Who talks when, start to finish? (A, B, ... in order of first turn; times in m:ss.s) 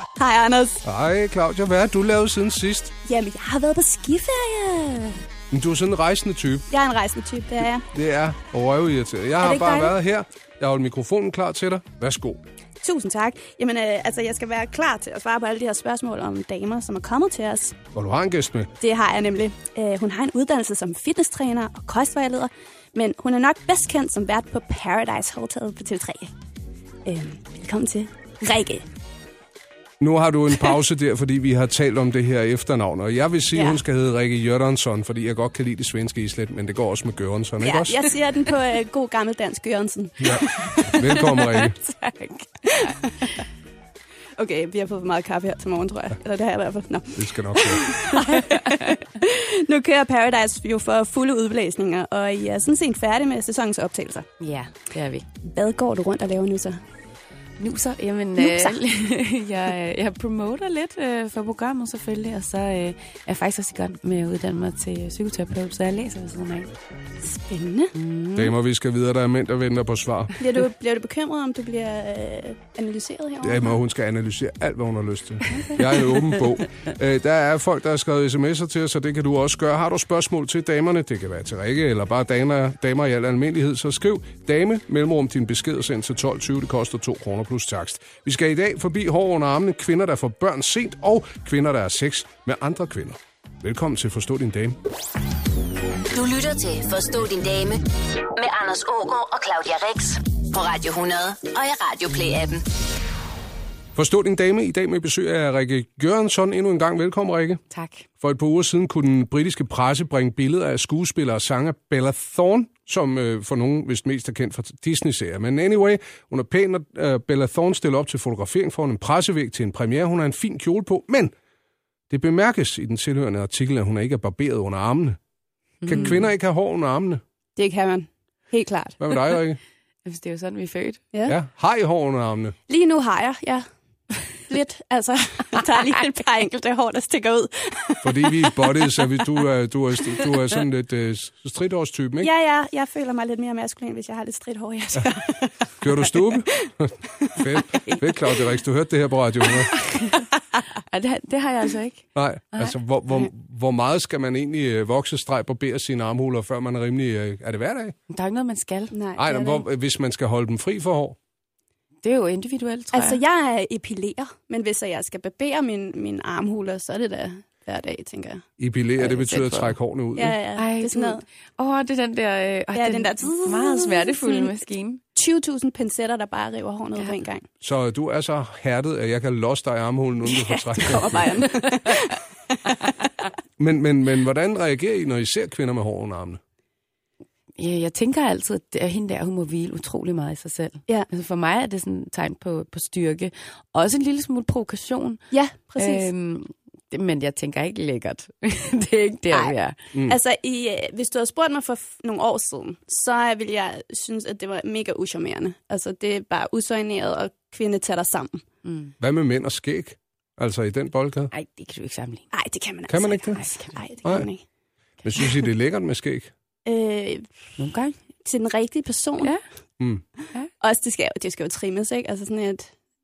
0:00.2-0:00.8 A
0:00.8-0:02.9 B
0:03.1-0:05.2 A
0:05.5-0:06.7 B
0:06.7-0:07.9 A
0:07.9-0:12.4 B
0:09.4-0:09.9 A
0:12.8-0:17.8 A
0:17.9-0:18.7 B
0:18.8-0:26.3 A
0:27.1-0:28.9 A
0:30.0-0:38.0 B
0:33.5-0:33.8 A
0:37.6-0:41.0 A
0:40.2-0:41.8 B
0:40.9-0:42.9 C
0:42.8-0:43.3 A
0:44.4-0:54.3 A
0:47.2-0:47.8 B
0:54.4-0:55.2 C
0:55.5-0:56.8 A
0:57.6-1:06.7 C
0:58.4-0:58.8 A
1:07.2-1:07.9 A
1:08.0-1:08.5 C
1:08.3-1:10.3 B
1:10.4-1:13.8 A
1:13.4-1:34.8 B
1:15.5-1:15.9 A
1:36.1-1:37.8 D
1:38.4-1:42.6 D
1:44.0-1:47.6 B
1:47.7-1:48.1 C
1:48.2-2:01.3 B
2:02.1-2:05.2 B
2:05.8-2:06.3 C
2:05.8-2:07.2 B
2:07.6-2:09.0 A
2:09.0-2:09.6 B
2:10.0-2:11.0 C
2:11.3-2:12.6 B
2:12.7-2:13.6 A
2:14.5-2:18.6 A
2:18.0-2:22.3 B
2:22.2-2:26.4 A
2:25.8-2:29.8 B
2:29.8-2:30.3 C
2:30.9-2:32.8 C
2:32.2-2:38.0 B
2:38.1-2:38.9 C
2:38.9-2:39.6 A
2:39.2-2:41.2 B
2:42.0-2:43.2 C
2:42.9-2:48.4 A
2:48.6-2:50.4 B
2:49.0-2:49.8 C
2:50.2-2:51.2 A
2:50.6-2:55.0 C
2:52.7-2:54.5 A
2:55.2-2:57.4 A
2:57.6-3:01.3 B
3:00.2-3:02.2 A
3:03.6-3:06.4 B
3:07.6-3:15.2 C
3:15.3-3:16.1 A
3:15.8-3:19.8 C
3:19.3-3:19.6 A
3:20.1-3:28.4 A
3:28.6-3:29.0 C
3:29.0-3:31.3 B
3:31.3-3:32.3 C
3:32.3-3:34.4 A
3:32.9-3:33.4 B
3:33.4-3:33.8 C
3:35.0-3:36.3 B
3:36.7-3:37.3 A
3:37.6-3:38.0 C
3:38.2-3:39.3 A
3:40.6-3:42.8 A